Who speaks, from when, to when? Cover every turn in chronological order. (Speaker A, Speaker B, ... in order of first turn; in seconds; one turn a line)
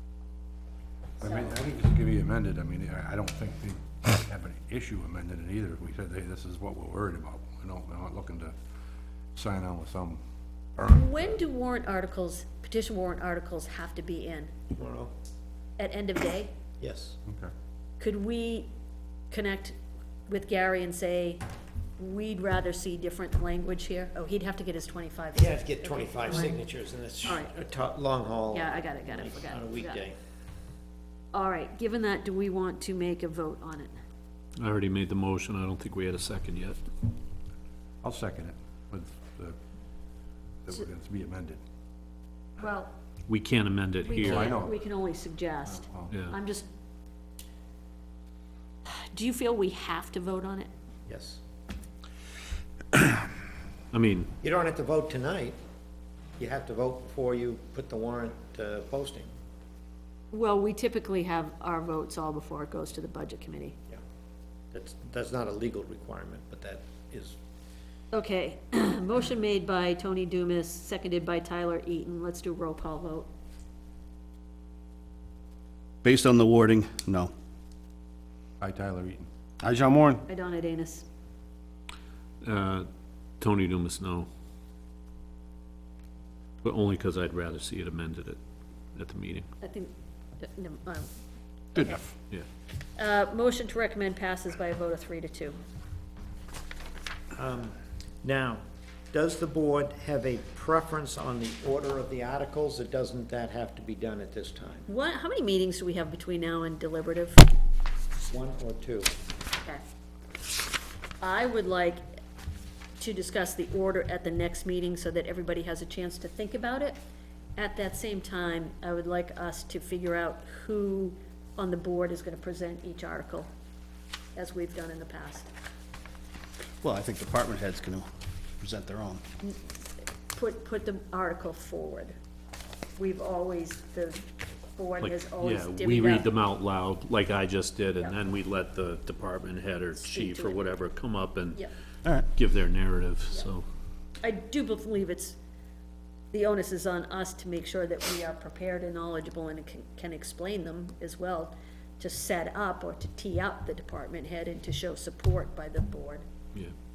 Speaker A: 1.2-8.5
Speaker B: 1.2-1.6
Speaker A: 9.3-10.2
Speaker B: 10.8-14.5
Speaker C: 14.7-15.1
Speaker B: 15.8-16.5
Speaker C: 16.8-17.2
Speaker A: 17.3-17.5
Speaker B: 18.0-18.7
Speaker B: 19.3-19.8
Speaker B: 20.3-21.4
Speaker B: 22.0-26.5
Speaker C: 25.4-30.1
Speaker B: 27.2-27.5
Speaker B: 28.5-30.0
Speaker B: 31.3-34.0
Speaker D: 34.6-36.8
Speaker A: 38.0-39.6
Speaker A: 40.6-41.6
Speaker B: 42.6-42.9
Speaker D: 43.3-44.5
Speaker B: 44.1-46.7
Speaker A: 44.2-44.8
Speaker A: 45.7-46.1
Speaker D: 46.1-46.4
Speaker B: 48.9-50.7
Speaker C: 51.1-51.4
Speaker D: 53.9-54.3
Speaker C: 54.4-55.6
Speaker C: 56.4-59.3
Speaker B: 60.3-63.8
Speaker C: 64.7-67.4
Speaker B: 68.1-73.3
Speaker E: 76.0-77.3
Speaker A: 78.6-79.3
Speaker E: 79.6-80.2
Speaker B: 80.3-81.1
Speaker D: 82.4-82.9
Speaker D: 83.4-84.3
Speaker D: 86.6-88.4
Speaker D: 89.0-89.5
Speaker B: 89.6-91.1
Speaker B: 93.0-95.6
Speaker C: 97.3-104.8
Speaker B: 104.9-107.4
Speaker C: 108.2-109.1
Speaker B: 111.2-112.0
Speaker B: 113.0-117.0
Speaker B: 117.6-123.5
Speaker B: 124.3-125.5
Speaker E: 126.8-129.2
Speaker B: 130.3-132.2
Speaker B: 133.0-136.3
Speaker D: 135.0-141.6
Speaker B: 140.0-140.7
Speaker D: 142.3-143.7
Speaker B: 144.2-145.4
Speaker B: 146.3-156.3